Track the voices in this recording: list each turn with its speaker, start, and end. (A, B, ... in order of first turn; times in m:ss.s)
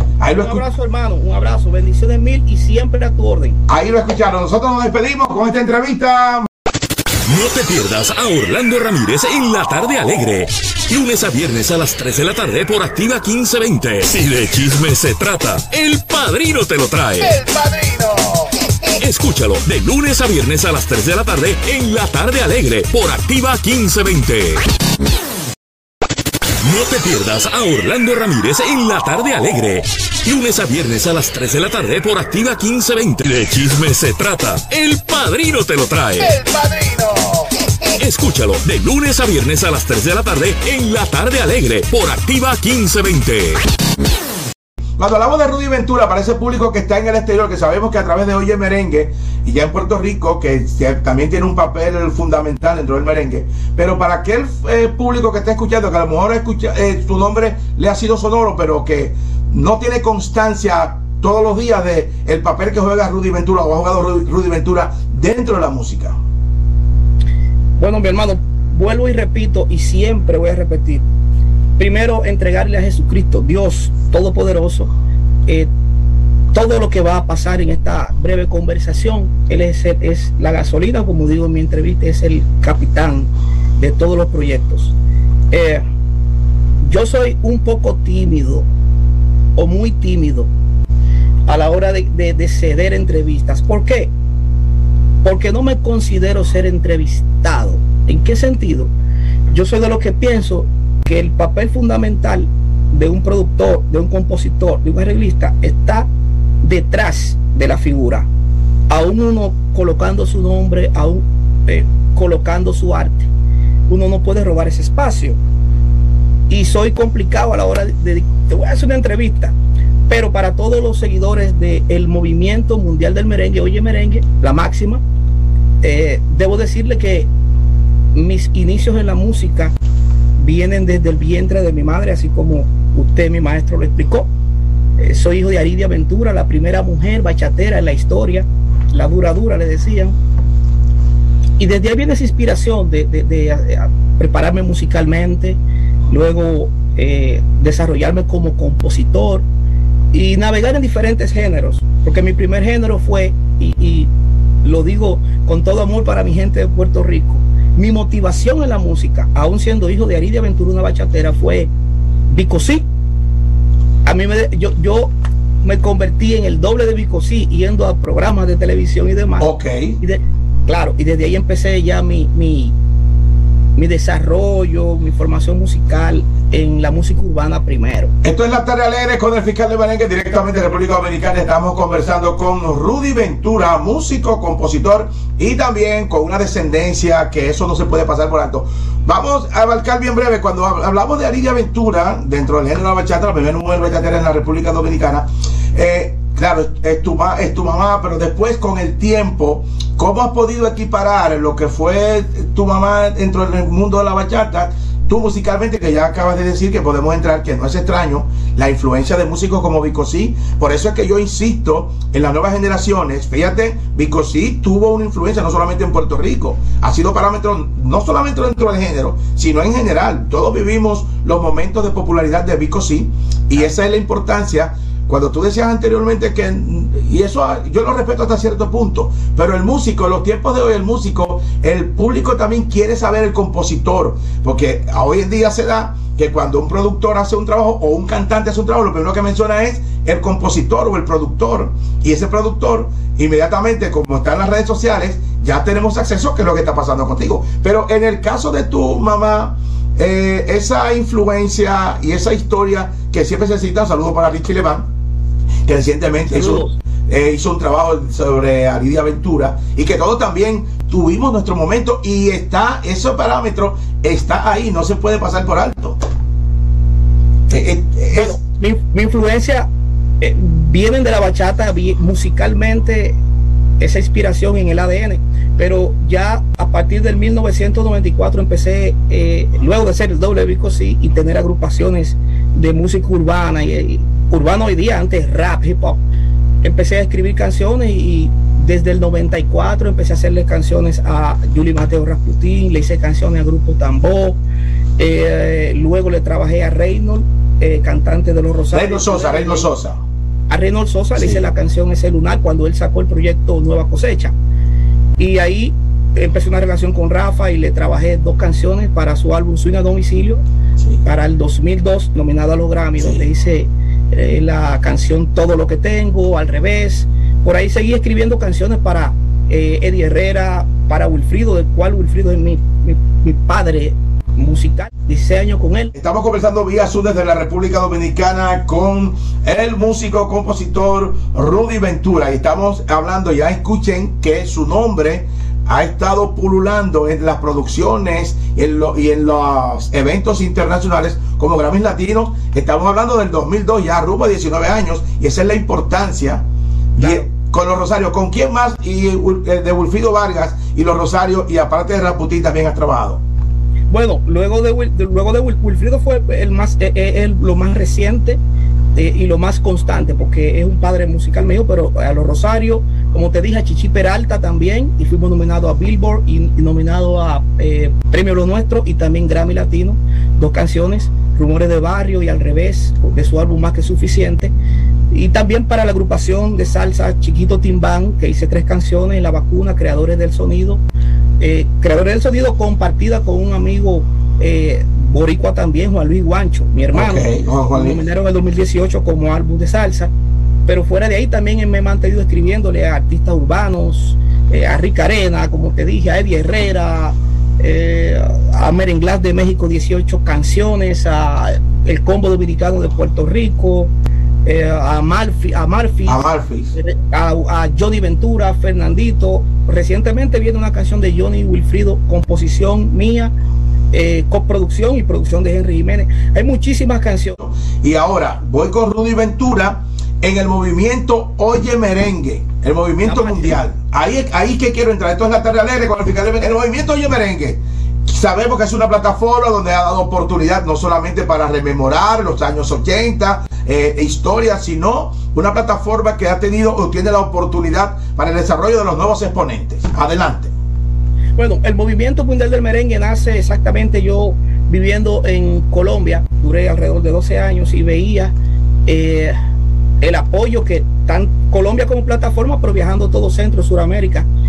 0:00.2-0:00.6 A
0:00.3-0:03.6 B
0:03.7-0:06.5 A
0:07.2-0:18.0 C
0:19.0-0:24.6 C
0:26.6-0:36.7 C
0:38.0-0:43.6 C
0:45.0-1:06.2 A
1:07.8-1:11.0 B
1:11.8-1:14.9 B
1:16.5-1:24.9 B
1:25.5-1:25.8 B
1:26.8-1:28.7 B
1:29.6-1:30.5 B
1:31.5-1:34.1 B
1:35.2-1:38.9 B
1:39.5-1:46.1 B
1:46.6-1:48.3 B
1:48.9-1:53.3 B
1:53.9-1:55.4 B
1:56.5-1:59.5 B
2:00.1-2:05.0 B
2:05.8-2:07.3 B
2:08.1-2:09.7 B
2:10.4-2:14.3 B
2:15.0-2:20.2 B
2:21.6-2:25.6 B
2:26.1-2:29.4 B
2:30.1-2:34.1 B
2:34.6-2:41.7 B
2:42.3-2:42.9 B
2:44.0-2:52.7 B
2:49.4-2:50.0 A
2:53.8-2:58.1 B
2:58.2-4:14.9 A
4:15.6-4:26.0 A
4:16.3-4:16.8 B
4:27.5-4:28.4 A
4:28.1-4:29.7 B
4:30.2-4:33.2 B
4:33.8-4:46.0 B
4:46.6-4:54.4 B
4:55.0-4:59.7 B
4:58.7-5:00.0 A
5:00.5-5:04.3 B
5:01.2-5:01.4 A
5:05.2-5:10.4 B
5:11.0-5:25.9 B
5:13.0-5:13.2 A
5:25.9-5:46.4 A
5:46.9-5:53.2 A
5:47.0-5:47.3 B
5:53.9-5:58.4 B
5:59.0-6:14.5 B
6:15.1-6:20.8 B
6:21.4-6:30.1 B
6:26.9-6:28.0 A
6:30.6-6:43.9 B
6:44.4-6:53.3 B
6:46.0-6:46.7 A
6:53.9-6:57.4 B
6:57.4-7:20.5 A
7:03.0-7:03.6 B
7:21.4-7:28.3 B
7:28.9-7:29.4 B
7:30.0-7:34.3 B